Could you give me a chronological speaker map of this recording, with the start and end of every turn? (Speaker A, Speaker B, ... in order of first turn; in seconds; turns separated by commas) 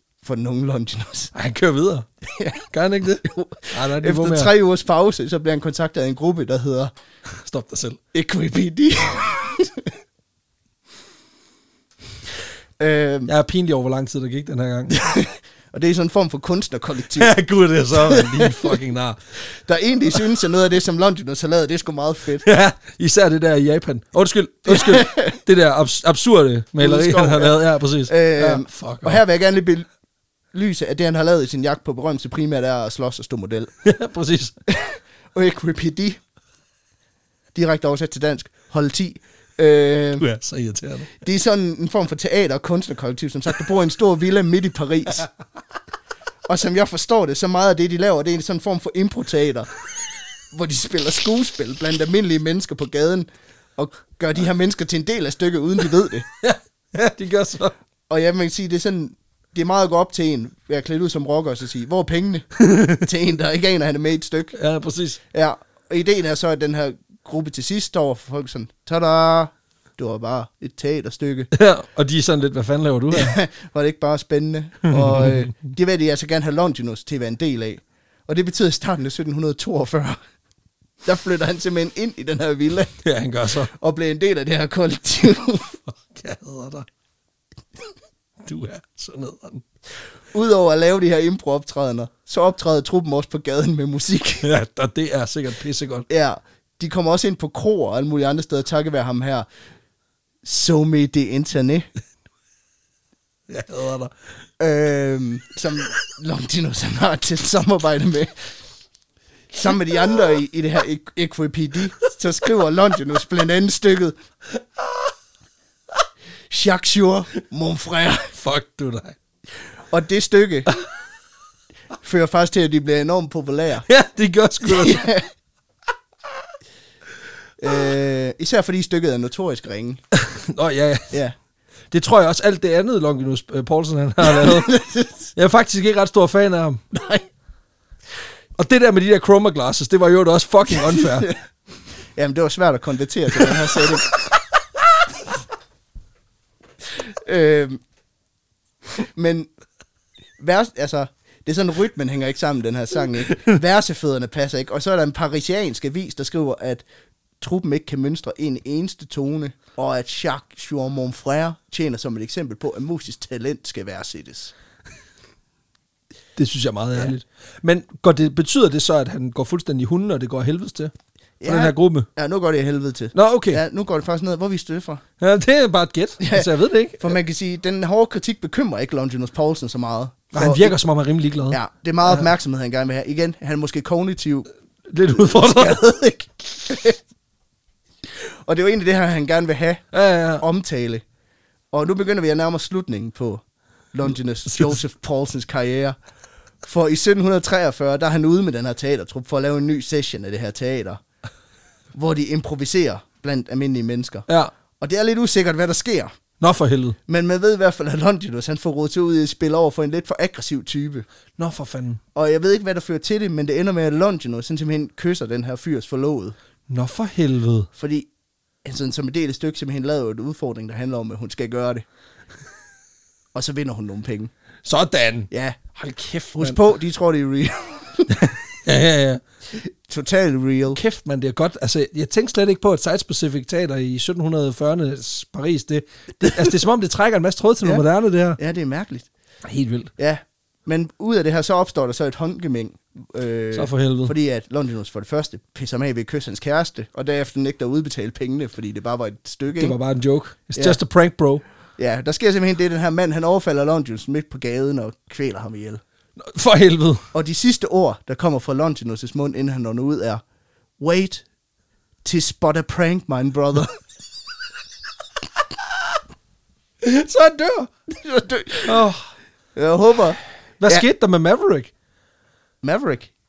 Speaker A: 0.2-1.3, Speaker B: 1.3-2.1, Speaker A: 2.2-2.7, Speaker B: 2.7-4.5, Speaker A: 3.2-6.9, Speaker B: 7.3-8.0, Speaker A: 8.1-9.9, Speaker A: 12.8-13.3, Speaker B: 13.3-15.1, Speaker A: 14.9-17.3, Speaker B: 17.1-19.2, Speaker A: 17.9-18.8, Speaker A: 19.4-22.4, Speaker B: 22.4-29.2, Speaker A: 24.7-25.4, Speaker A: 26.8-29.9, Speaker A: 30.5-33.7, Speaker B: 33.8-34.5, Speaker A: 34.7-36.2, Speaker A: 37.5-40.2, Speaker B: 40.2-41.1, Speaker A: 41.2-45.3, Speaker A: 46.5-49.7, Speaker A: 50.5-56.3, Speaker B: 56.4-57.7, Speaker A: 58.1-64.5, Speaker B: 62.6-63.0, Speaker B: 64.5-65.2, Speaker A: 65.3-71.5, Speaker B: 71.5-73.4, Speaker A: 73.1-80.2, Speaker B: 74.9-75.5, Speaker A: 81.0-83.0, Speaker B: 83.0-83.7, Speaker A: 83.6-85.8, Speaker B: 85.9-86.9, Speaker B: 88.4-89.6, Speaker A: 90.3-94.5, Speaker B: 94.4-96.0, Speaker A: 96.1-99.5, Speaker A: 100.4-101.9, Speaker B: 103.5-104.1, Speaker A: 104.6-108.3, Speaker A: 109.5-114.1, Speaker B: 114.5-115.1, Speaker A: 116.5-118.3, Speaker B: 118.3-119.2, Speaker A: 119.9-120.7, Speaker A: 122.0-123.8, Speaker B: 123.8-125.0, Speaker A: 124.6-125.3, Speaker A: 127.6-130.0, Speaker B: 130.1-131.1, Speaker B: 131.9-134.8, Speaker A: 134.3-135.3, Speaker B: 135.3-136.8, Speaker A: 136.9-137.2, Speaker B: 138.6-141.3, Speaker A: 140.7-141.4, Speaker A: 142.2-144.2, Speaker B: 143.3-143.8, Speaker A: 146.9-147.8, Speaker A: 149.0-149.5, Speaker A: 150.4-156.8, Speaker A: 157.4-164.5, Speaker B: 166.3-170.9, Speaker A: 171.4-175.0, Speaker B: 171.4-172.1, Speaker B: 173.1-173.6, Speaker B: 175.2-177.1, Speaker A: 176.2-180.8, Speaker B: 180.3-182.2, Speaker A: 181.5-184.5, Speaker B: 184.9-185.8, Speaker A: 185.2-187.0, Speaker A: 188.1-189.8, Speaker B: 189.9-190.4, Speaker A: 190.4-191.0, Speaker A: 191.7-195.9, Speaker B: 194.5-194.8, Speaker A: 196.6-201.0, Speaker A: 201.9-206.1, Speaker B: 204.3-204.5, Speaker B: 206.4-207.0, Speaker A: 207.1-211.1, Speaker B: 211.4-212.0, Speaker A: 212.1-216.3, Speaker B: 216.7-217.7, Speaker A: 217.8-218.1, Speaker A: 218.6-221.8, Speaker A: 223.3-224.3, Speaker B: 224.6-226.6, Speaker A: 225.3-225.6, Speaker A: 226.3-228.2, Speaker B: 228.1-229.2, Speaker A: 229.5-230.8, Speaker B: 230.7-238.4, Speaker A: 238.4-239.1, Speaker B: 239.4-239.9, Speaker A: 240.0-249.8, Speaker B: 243.5-244.1, Speaker B: 249.6-251.4, Speaker A: 251.8-255.8, Speaker B: 256.2-257.1, Speaker A: 257.1-260.2, Speaker A: 260.8-261.2, Speaker A: 262.0-263.8, Speaker B: 266.8-267.7, Speaker A: 267.9-268.9, Speaker B: 268.7-269.1, Speaker A: 269.6-270.8, Speaker B: 270.6-271.7, Speaker A: 272.6-273.1